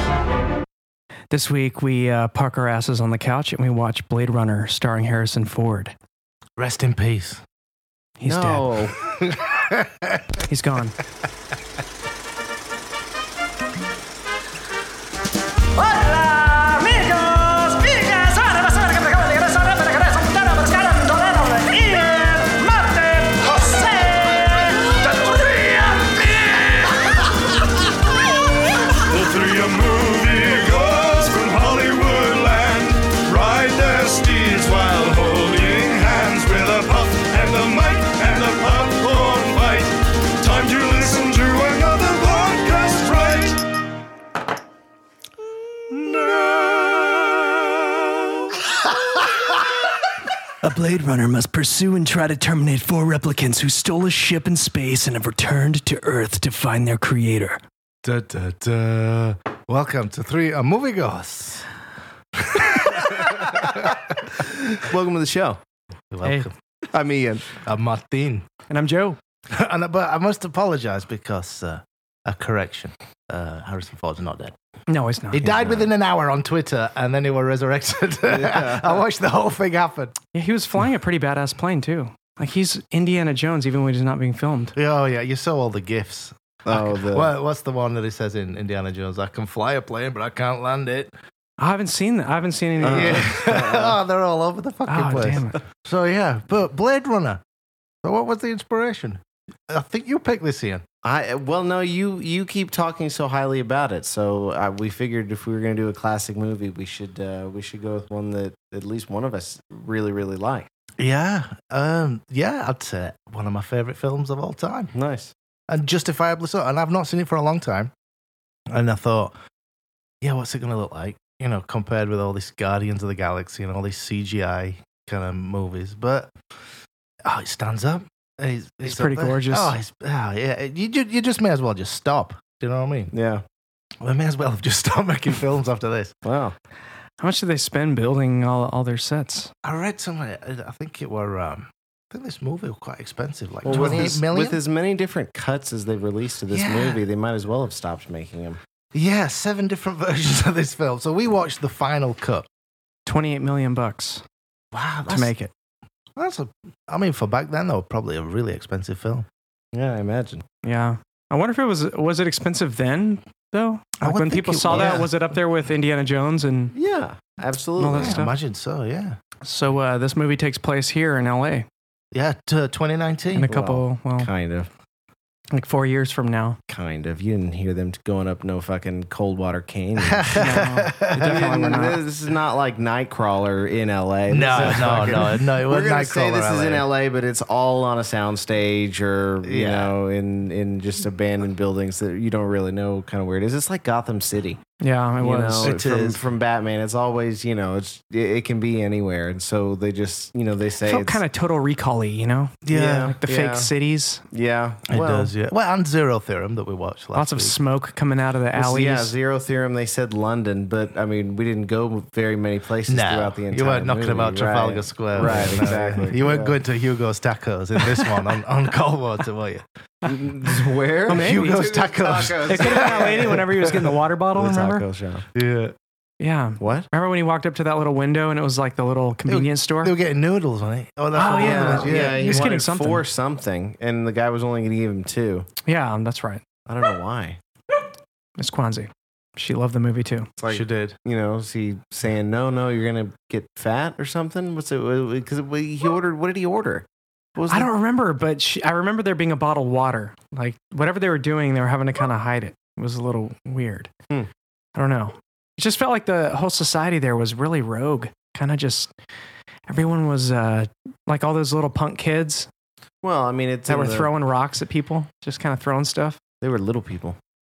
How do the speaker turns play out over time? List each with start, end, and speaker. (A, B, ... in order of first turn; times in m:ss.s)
0:01.3-0:06.0 A
0:06.6-0:07.4 B
0:08.2-0:08.7 A
0:08.2-0:09.0 C
0:09.0-0:10.4 B
0:10.5-0:11.0 A
0:15.8-0:25.4 D
0:18.7-0:19.2 A
0:21.5-0:22.6 A
0:29.0-0:43.7 E
0:46.0-0:47.1 E
0:50.6-0:57.6 A
0:58.0-1:01.7 B
1:02.3-1:04.4 B
1:04.4-1:05.6 C
1:06.1-1:06.5 B
1:06.2-1:06.5 A
1:06.9-1:07.6 C
1:07.5-1:08.5 B
1:08.7-1:09.2 A
1:09.5-1:14.6 B
1:14.9-1:15.5 A
1:15.3-1:20.2 B
1:15.4-1:15.9 C
1:18.3-1:19.0 C
1:20.3-1:24.8 A
1:24.8-1:31.1 B
1:26.7-1:27.3 C
1:31.6-1:33.3 A
1:32.8-1:34.0 C
1:32.8-1:37.4 B
1:34.9-1:35.6 A
1:38.0-1:40.8 B
1:41.0-1:50.7 C
1:51.0-1:54.9 B
1:54.9-1:55.3 C
1:55.7-1:57.9 B
1:58.7-1:59.3 B
2:00.2-2:06.3 B
2:07.2-2:13.1 B
2:08.8-2:09.7 A
2:13.1-2:13.4 C
2:14.0-2:16.1 B
2:16.2-2:16.6 C
2:17.2-2:19.5 A
2:19.6-2:24.6 B
2:23.6-2:28.6 C
2:26.5-2:27.0 B
2:28.9-2:32.5 B
2:33.1-2:34.2 A
2:34.7-2:35.3 B
2:35.1-2:35.5 A
2:36.2-2:39.3 B
2:39.7-2:40.4 C
2:40.6-2:46.7 A
2:44.0-2:45.1 B
2:44.7-2:45.0 C
2:46.7-2:48.2 C
2:47.8-2:48.4 A
2:47.9-2:49.2 B
2:49.4-2:51.7 A
2:52.1-2:53.5 B
2:53.4-2:54.3 A
2:53.5-2:54.7 C
2:55.5-2:56.6 A
2:56.7-3:14.6 C
3:00.0-3:01.7 B
3:00.4-3:02.0 A
3:04.3-3:06.9 B
3:09.4-3:10.0 B
3:14.8-3:15.7 A
3:15.2-3:21.2 C
3:15.6-3:16.2 B
3:20.8-3:24.2 A
3:22.6-3:23.2 B
3:22.7-3:23.7 C
3:24.3-3:25.3 C
3:24.9-3:27.6 B
3:27.2-3:29.1 A
3:28.6-3:36.6 C
3:32.9-3:39.7 B
3:35.2-3:36.1 A
3:40.0-3:43.7 C
3:41.1-3:41.7 A
3:41.1-3:43.9 B
3:42.4-3:44.9 A
3:44.4-3:45.2 C
3:45.3-3:45.8 B
3:46.2-3:49.9 A
3:46.6-3:46.9 C
3:49.3-3:52.5 B
3:51.2-3:53.0 A
3:51.2-3:55.5 C
3:55.6-3:56.4 A
3:56.7-3:57.4 C
3:58.4-4:00.3 A
4:00.4-4:07.7 C
4:00.5-4:01.0 B
4:07.5-4:13.9 A
4:14.8-4:18.9 A
4:19.7-4:22.5 A
4:23.0-4:24.1 C
4:23.7-4:26.2 A
4:26.4-4:27.2 C